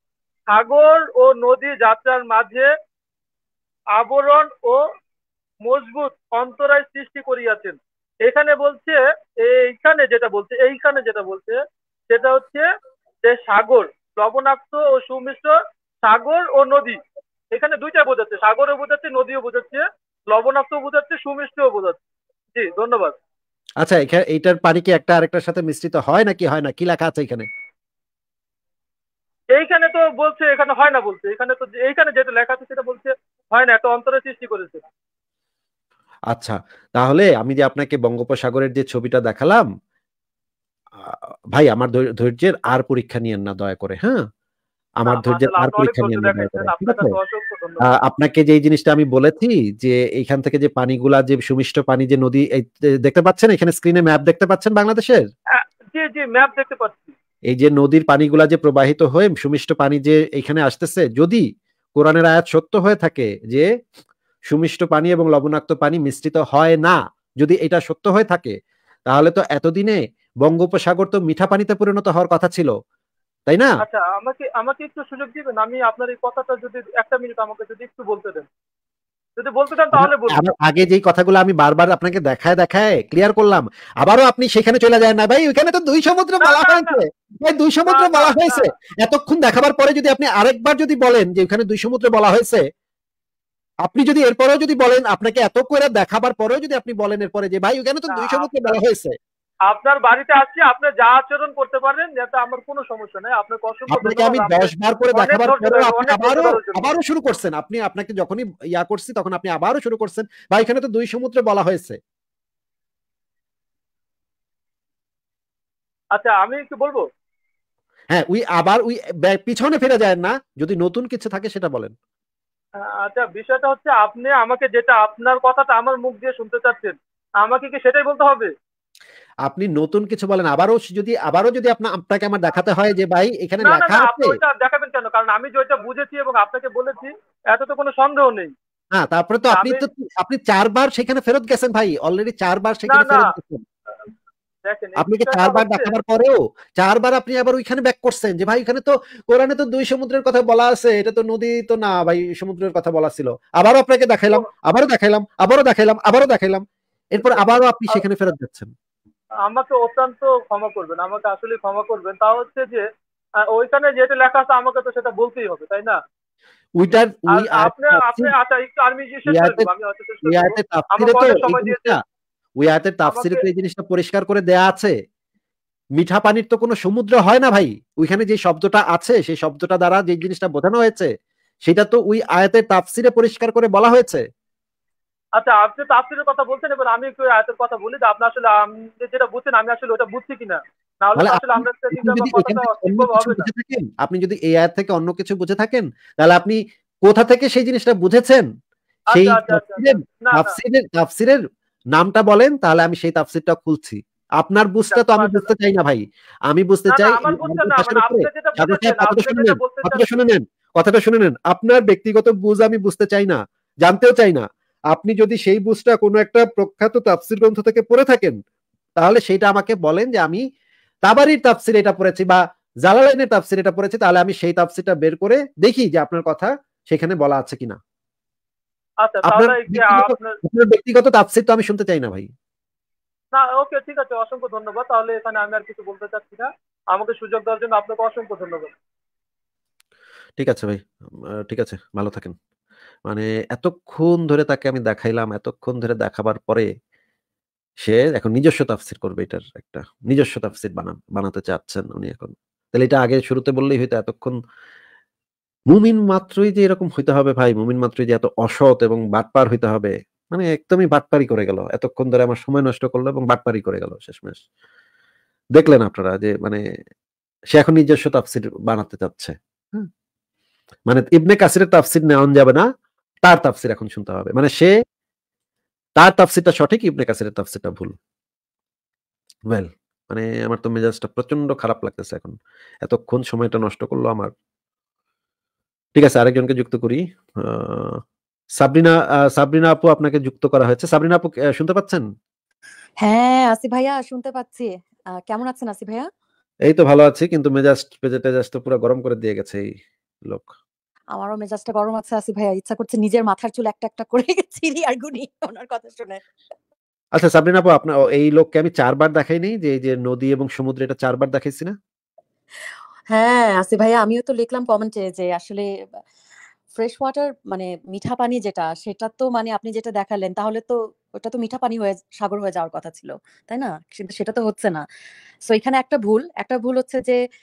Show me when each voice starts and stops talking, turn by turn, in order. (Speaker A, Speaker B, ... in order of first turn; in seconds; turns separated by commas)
Speaker A: 0.5-2.7, Speaker A: 3.9-4.8, Speaker A: 5.6-11.6, Speaker A: 12.1-12.7, Speaker A: 13.2-17.0, Speaker A: 17.5-22.0, Speaker A: 22.5-23.1, Speaker B: 23.8-27.5, Speaker A: 29.5-34.8, Speaker B: 36.3-39.6, Speaker B: 41.0-44.2, Speaker B: 45.0-47.1, Speaker A: 45.0-47.9, Speaker B: 47.9-55.3, Speaker A: 55.5-57.1, Speaker B: 57.5-63.7, Speaker B: 64.5-68.5, Speaker B: 69.1-72.7, Speaker B: 73.5-73.8, Speaker A: 73.8-78.5, Speaker A: 79.4-80.4, Speaker B: 79.9-92.6, Speaker A: 86.4-87.0, Speaker A: 87.9-88.7, Speaker B: 93.8-99.1, Speaker A: 98.1-98.8, Speaker A: 99.7-106.9, Speaker B: 103.9-112.0, Speaker A: 116.1-117.0, Speaker B: 118.1-121.9, Speaker A: 122.8-128.5, Speaker B: 129.4-134.4, Speaker A: 133.6-138.5, Speaker B: 138.9-143.6, Speaker A: 139.5-139.8, Speaker A: 142.9-143.3, Speaker A: 144.6-145.9, Speaker B: 145.0-158.7, Speaker A: 157.2-158.0, Speaker A: 159.4-162.8, Speaker A: 163.5-166.0, Speaker B: 166.8-168.3, Speaker A: 167.3-172.0, Speaker B: 169.3-169.7, Speaker B: 170.2-172.0, Speaker B: 172.6-174.9, Speaker A: 173.1-173.4, Speaker B: 175.9-181.1, Speaker B: 181.6-184.2, Speaker A: 185.4-193.5, Speaker B: 191.2-198.4, Speaker A: 199.1-200.6, Speaker B: 199.1-201.4, Speaker B: 201.9-218.4, Speaker A: 204.9-205.5, Speaker A: 206.9-210.2, Speaker B: 219.0-220.4, Speaker B: 221.0-227.8, Speaker A: 229.0-230.3, Speaker B: 229.2-232.3, Speaker A: 233.3-238.7, Speaker B: 240.4-242.3, Speaker B: 243.1-246.7, Speaker B: 247.8-254.3, Speaker B: 255.7-264.4, Speaker B: 265.5-266.6, Speaker B: 267.5-269.9, Speaker B: 270.9-272.6, Speaker B: 273.2-274.7, Speaker B: 276.0-277.9, Speaker B: 279.5-284.3, Speaker B: 285.9-288.0, Speaker B: 288.6-292.0, Speaker C: 293.0-294.7, Speaker C: 295.3-296.1, Speaker B: 296.7-299.7, Speaker B: 300.2-300.5, Speaker C: 301.1-306.2, Speaker B: 307.1-311.7, Speaker C: 313.1-315.6, Speaker C: 316.7-324.8, Speaker C: 325.5-327.2